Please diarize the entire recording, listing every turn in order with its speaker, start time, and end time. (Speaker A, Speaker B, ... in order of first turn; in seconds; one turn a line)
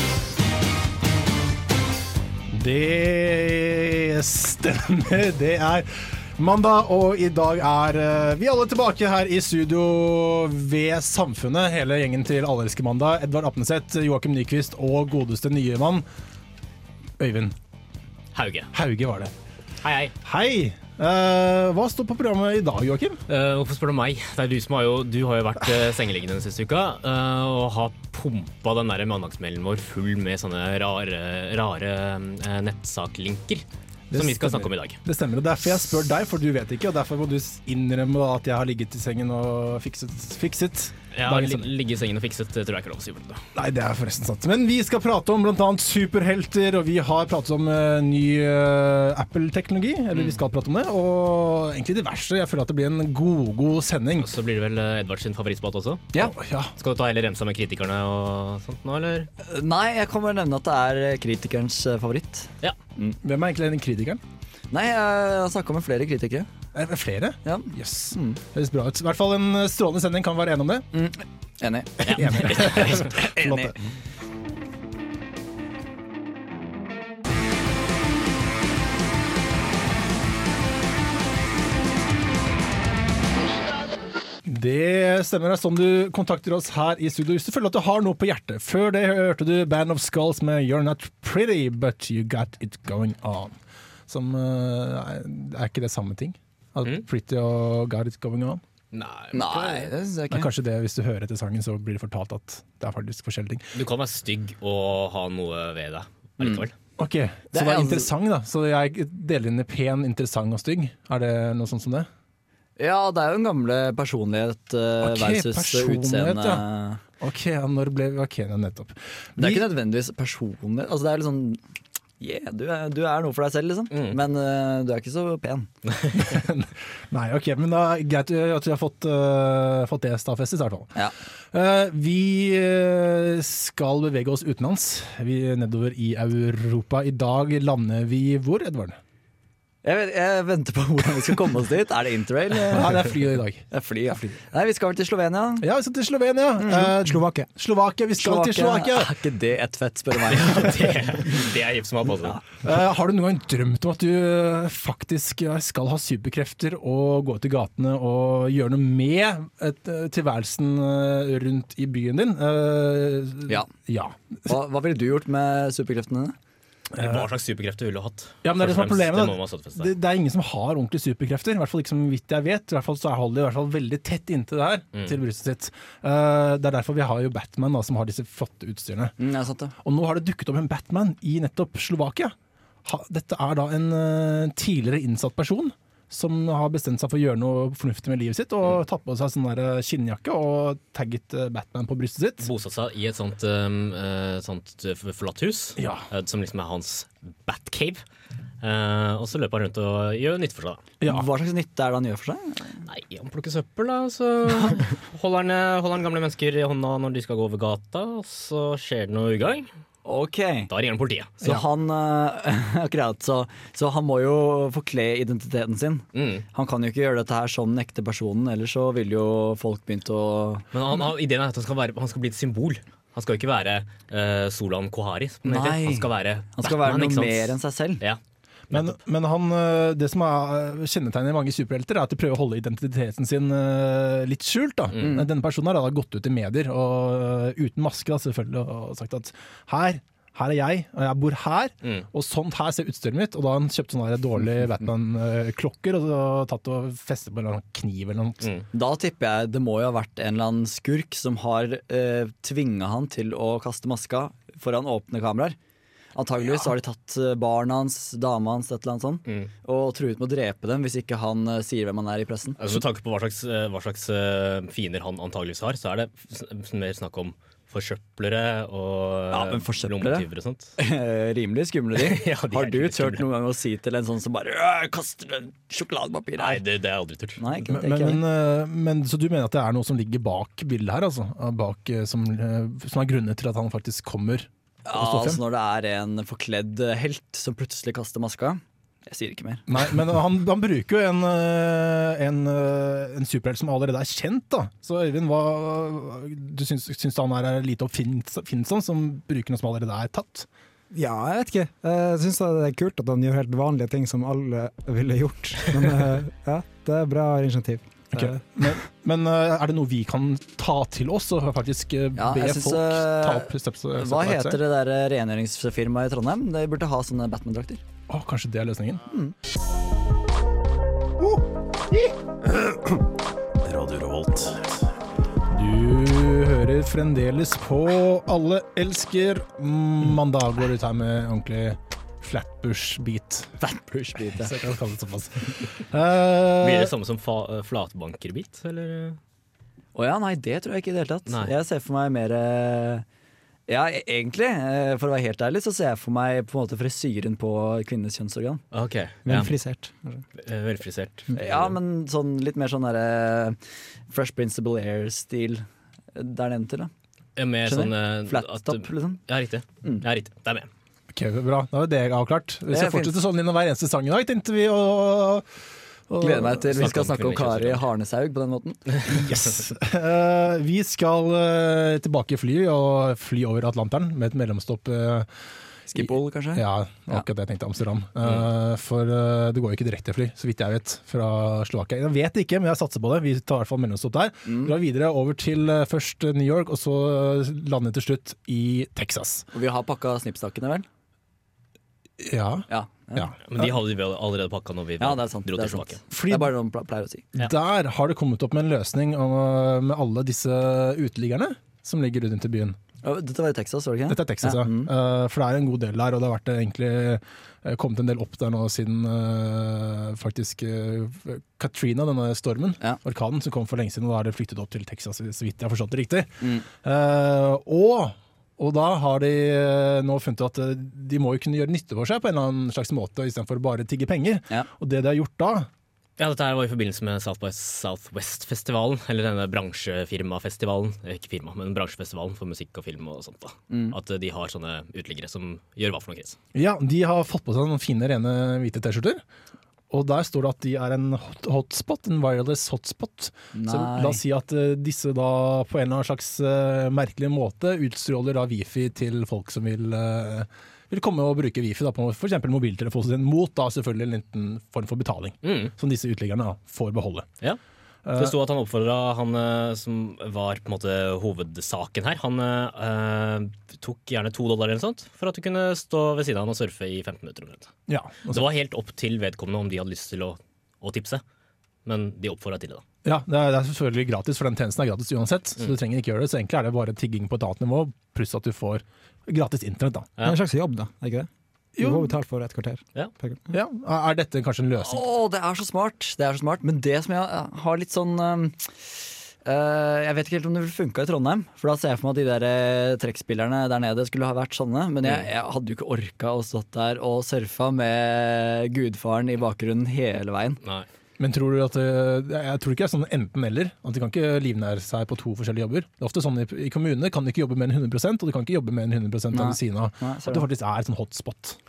Speaker A: 2.5-16.1
Speaker A: 17.2-17.6
Speaker B: 18.3-18.7
Speaker A: 18.7-19.3
Speaker B: 19.8-20.1
Speaker A: 20.2-23.2
Speaker B: 23.3-35.0
Speaker A: 34.1-41.7
Speaker B: 41.1-43.4
Speaker A: 43.5-54.3
Speaker B: 50.1-50.4
Speaker B: 54.2-56.1
Speaker A: 56.1-56.7
Speaker B: 56.8-59.3
Speaker C: 59.4-63.2
Speaker A: 63.2-64.2
Speaker C: 64.7-66.5
Speaker A: 66.7-70.9
Speaker C: 67.4-68.4
Speaker C: 70.9-73.7
Speaker A: 72.0-73.8
Speaker B: 72.1-73.1
Speaker A: 84.4-93.6
Speaker A: 94.1-98.6
Speaker B: 98.9-99.9
Speaker C: 99.3-100.5
Speaker A: 100.3-103.7
Speaker B: 103.7-106.7
Speaker C: 106.4-106.7
Speaker A: 107.0-112.1
Speaker C: 107.5-108.1
Speaker C: 112.8-117.0
Speaker A: 115.0-116.6
Speaker A: 117.2-119.7
Speaker C: 119.4-121.6
Speaker C: 122.2-125.7
Speaker B: 123.9-124.2
Speaker A: 126.1-130.9
Speaker A: 131.5-139.0
Speaker C: 139.8-143.1
Speaker A: 142.7-143.6
Speaker C: 143.7-145.6
Speaker A: 145.6-149.1
Speaker D: 146.8-147.5
Speaker C: 148.2-150.9
Speaker B: 150.3-152.4
Speaker A: 152.6-164.5
Speaker C: 164.5-166.3
Speaker A: 166.9-167.3
Speaker B: 166.9-169.9
Speaker A: 168.4-179.1
Speaker C: 179.2-179.7
Speaker A: 179.8-192.5
Speaker B: 192.4-198.0
Speaker A: 195.8-196.1
Speaker B: 198.6-200.8
Speaker A: 201.0-201.3
Speaker C: 201.0-202.8
Speaker B: 202.8-209.7
Speaker C: 210.0-210.7
Speaker B: 210.7-211.6
Speaker C: 211.4-220.7
Speaker B: 216.1-216.4
Speaker B: 220.7-228.2
Speaker C: 225.4-228.0
Speaker B: 228.7-228.9
Speaker A: 228.7-248.5
Speaker C: 248.7-255.6
Speaker C: 256.1-262.8
Speaker B: 259.2-259.5
Speaker B: 262.6-270.7
Speaker C: 269.3-276.6
Speaker B: 271.9-273.2
Speaker B: 276.4-277.4
Speaker C: 277.4-278.2
Speaker A: 277.7-285.4
Speaker C: 284.9-289.7
Speaker A: 289.7-300.5
Speaker D: 300.9-308.7
Speaker A: 308.1-314.6
Speaker C: 312.1-317.8
Speaker A: 318.1-319.0
Speaker A: 321.2-322.1
Speaker B: 323.7-324.6
Speaker A: 325.5-333.6
Speaker C: 333.6-334.6
Speaker A: 334.1-336.9
Speaker B: 336.6-339.2
Speaker C: 339.9-343.0
Speaker B: 341.3-341.5
Speaker C: 343.7-348.6
Speaker B: 348.7-349.5
Speaker D: 349.2-350.2
Speaker B: 350.4-351.7
Speaker C: 351.3-353.6
Speaker C: 354.1-356.9
Speaker B: 357.4-360.7
Speaker C: 357.6-359.2
Speaker A: 361.1-365.4
Speaker C: 362.7-363.1
Speaker A: 366.1-366.9
Speaker C: 366.2-369.2
Speaker B: 366.7-367.9
Speaker A: 369.1-375.3
Speaker C: 375.9-377.2
Speaker A: 375.9-389.5
Speaker C: 384.4-384.7
Speaker C: 389.5-390.9
Speaker A: 392.2-393.7
Speaker C: 392.7-393.3
Speaker B: 393.4-396.0
Speaker C: 395.0-397.3
Speaker A: 396.1-396.5
Speaker A: 397.3-402.8
Speaker C: 403.0-404.9
Speaker A: 404.1-425.7
Speaker C: 416.4-416.6
Speaker B: 426.2-436.4
Speaker C: 433.7-433.9
Speaker A: 436.5-439.2
Speaker A: 439.9-457.3
Speaker C: 443.5-444.2
Speaker B: 455.4-455.7
Speaker A: 458.1-458.3
Speaker B: 458.1-467.7
Speaker A: 467.9-468.4
Speaker B: 468.3-471.2
Speaker B: 471.8-472.8
Speaker A: 473.0-480.1
Speaker D: 480.2-481.3
Speaker A: 481.8-482.1
Speaker D: 481.8-483.5
Speaker A: 483.5-485.0
Speaker C: 484.8-488.9
Speaker C: 489.4-500.6
Speaker A: 501.2-511.6
Speaker C: 509.3-510.4